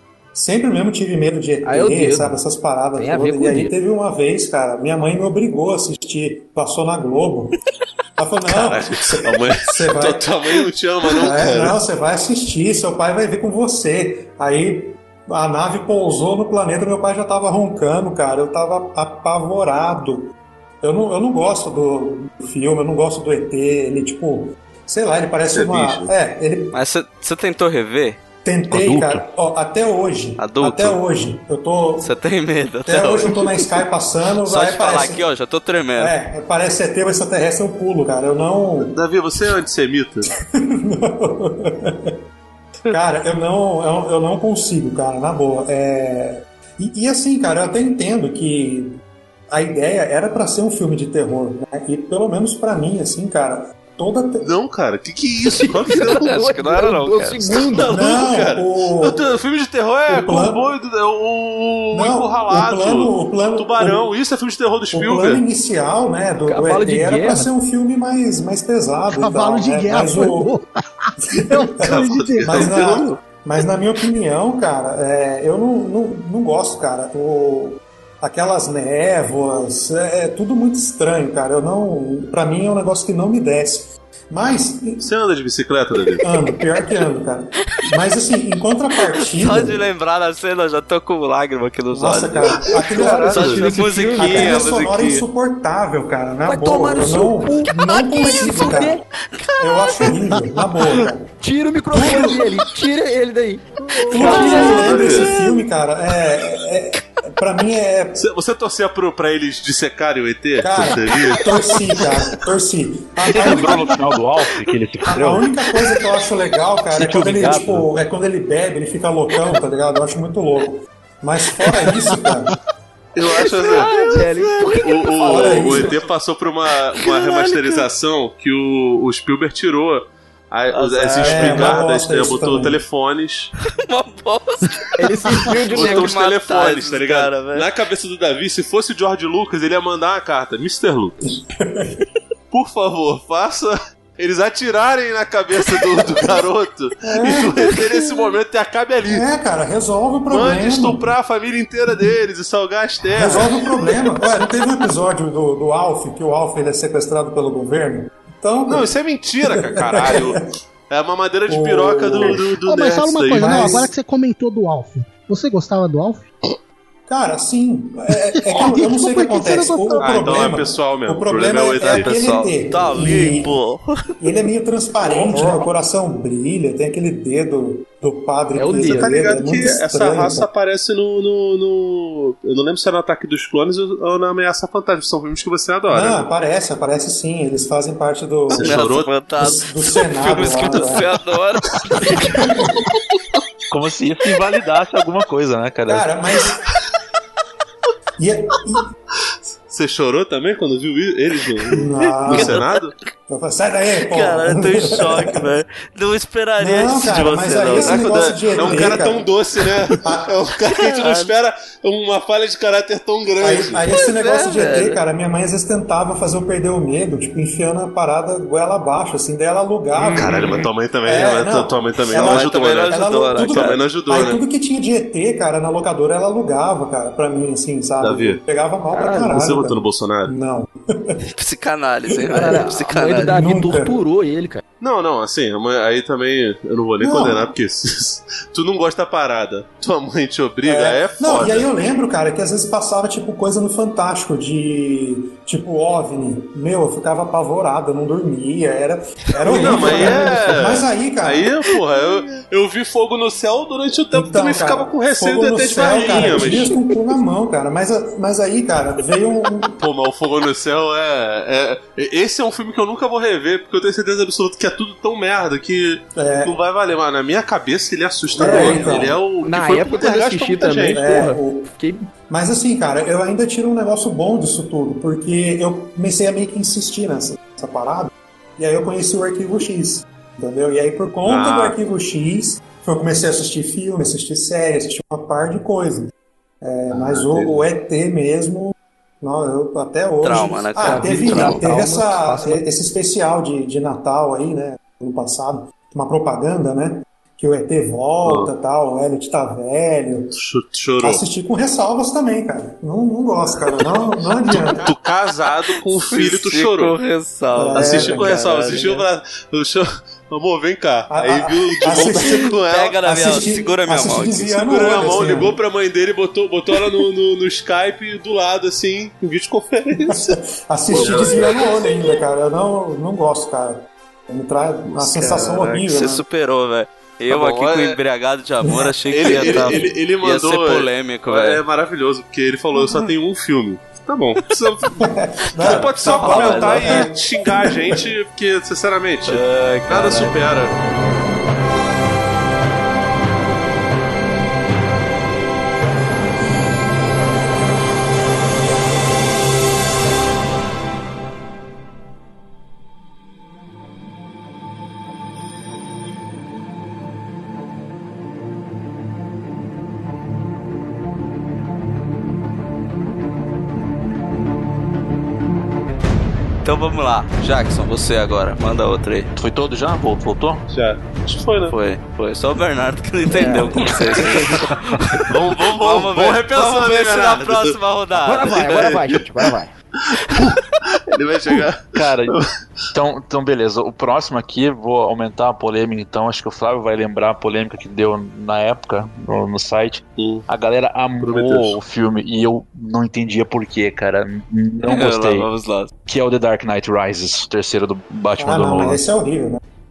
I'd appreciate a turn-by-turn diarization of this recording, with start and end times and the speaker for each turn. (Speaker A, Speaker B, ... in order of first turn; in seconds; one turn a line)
Speaker A: 0.3-7.5
Speaker B: 1.6-2.4
Speaker B: 3.0-3.7
Speaker A: 8.2-10.3
Speaker C: 8.5-11.8
Speaker A: 11.2-26.7
Speaker C: 25.5-26.1
Speaker D: 26.7-28.2
Speaker A: 28.4-32.1
Speaker E: 28.7-29.3
Speaker D: 30.4-31.0
Speaker D: 32.0-33.8
Speaker A: 32.9-35.2
Speaker D: 34.5-36.1
Speaker A: 36.0-39.0
Speaker C: 38.9-40.3
Speaker A: 40.3-42.1
Speaker A: 42.9-49.0
Speaker A: 49.5-54.5
Speaker C: 54.4-56.5
Speaker B: 55.5-57.9
Speaker D: 55.9-57.6
Speaker C: 57.6-65.4
Speaker A: 57.9-59.2
Speaker A: 60.1-60.6
Speaker A: 61.9-64.1
Speaker A: 64.9-70.5
Speaker B: 66.5-67.5
Speaker F: 69.1-72.8
Speaker A: 71.4-85.0
Speaker C: 71.9-73.2
Speaker C: 85.0-86.2
Speaker A: 86.2-89.8
Speaker D: 89.0-95.2
Speaker A: 91.9-99.0
Speaker C: 92.5-93.6
Speaker B: 93.0-94.7
Speaker B: 96.5-99.0
Speaker D: 98.2-98.7
Speaker D: 99.3-101.0
Speaker A: 99.6-101.3
Speaker B: 101.4-105.1
Speaker A: 101.9-102.5
Speaker D: 104.0-105.6
Speaker A: 104.1-108.2
Speaker C: 104.2-105.3
Speaker C: 108.2-112.4
Speaker A: 110.6-113.9
Speaker E: 113.3-115.5
Speaker D: 113.5-113.8
Speaker A: 115.1-122.5
Speaker E: 116.9-117.9
Speaker C: 123.2-123.9
Speaker D: 123.3-126.0
Speaker B: 123.7-126.0
Speaker C: 124.8-133.5
Speaker A: 125.2-126.0
Speaker D: 127.0-127.9
Speaker D: 130.7-131.8
Speaker A: 131.2-132.8
Speaker D: 133.9-134.9
Speaker B: 135.0-136.1
Speaker D: 135.7-137.7
Speaker C: 135.7-141.3
Speaker A: 141.3-142.0
Speaker C: 142.5-149.3
Speaker A: 147.0-147.7
Speaker A: 149.1-151.1
Speaker C: 150.3-153.7
Speaker A: 153.1-158.9
Speaker C: 158.7-160.4
Speaker A: 159.4-160.5
Speaker C: 160.9-163.9
Speaker A: 161.5-162.5
Speaker F: 162.6-166.3
Speaker A: 163.3-163.9
Speaker A: 167.1-173.5
Speaker F: 168.3-170.4
Speaker C: 170.0-172.1
Speaker D: 171.8-174.0
Speaker A: 174.2-180.5
Speaker B: 175.1-175.6
Speaker B: 178.6-179.2
Speaker C: 178.7-186.3
Speaker A: 185.9-191.1
Speaker C: 188.5-189.2
Speaker D: 188.5-192.4
Speaker A: 192.2-192.8
Speaker E: 193.7-196.1
Speaker A: 195.9-196.6
Speaker A: 198.2-198.9
Speaker C: 199.6-202.9
Speaker A: 201.8-202.6
Speaker D: 202.3-202.8
Speaker A: 203.3-205.4
Speaker D: 204.1-208.9
Speaker A: 206.6-209.3
Speaker C: 207.7-213.8
Speaker A: 210.0-210.3
Speaker D: 210.7-211.3
Speaker A: 213.4-231.2
Speaker D: 213.9-215.0
Speaker C: 220.0-224.4
Speaker D: 222.1-223.8
Speaker C: 228.0-228.4
Speaker B: 228.9-229.3
Speaker C: 229.3-230.3
Speaker D: 231.3-233.4
Speaker B: 232.3-234.6
Speaker A: 233.3-234.0
Speaker C: 234.8-241.7
Speaker A: 237.0-237.5
Speaker A: 240.6-251.6
Speaker C: 249.4-256.8
Speaker D: 249.5-250.2
Speaker A: 254.1-259.8
Speaker D: 256.0-256.3
Speaker C: 259.8-271.1
Speaker A: 266.2-266.6
Speaker A: 268.3-269.2
Speaker B: 268.4-268.9
Speaker B: 269.4-272.1
Speaker A: 270.9-271.7
Speaker A: 272.3-286.1
Speaker C: 281.2-281.8
Speaker A: 286.6-300.3
Speaker C: 286.9-287.6
Speaker D: 290.2-291.6
Speaker B: 290.8-292.6
Speaker C: 298.2-298.5
Speaker C: 300.3-301.2
Speaker A: 301.0-304.9
Speaker C: 304.5-306.9
Speaker D: 306.1-309.1
Speaker A: 307.5-308.4
Speaker C: 307.7-313.3
Speaker A: 311.1-315.6
Speaker D: 311.9-315.3
Speaker C: 314.5-320.4
Speaker A: 320.1-326.2
Speaker C: 320.9-322.0
Speaker D: 321.0-321.2
Speaker C: 325.1-325.4
Speaker D: 325.1-331.6
Speaker C: 327.3-328.0
Speaker A: 328.7-329.8
Speaker C: 329.1-335.0
Speaker D: 332.8-333.0
Speaker A: 335.0-338.0
Speaker D: 335.6-337.1
Speaker C: 335.6-340.8
Speaker D: 339.3-340.4
Speaker D: 366.6-369.3
Speaker E: 369.4-370.6
Speaker C: 370.7-371.8
Speaker D: 371.7-379.0
Speaker B: 373.4-373.9
Speaker C: 375.3-377.8
Speaker B: 378.2-379.7
Speaker C: 378.5-379.3
Speaker C: 380.1-382.5
Speaker E: 381.9-382.3
Speaker E: 382.9-395.5
Speaker C: 390.2-390.5
Speaker C: 391.2-391.8
Speaker D: 394.8-395.9
Speaker E: 396.1-399.0
Speaker A: 398.4-399.6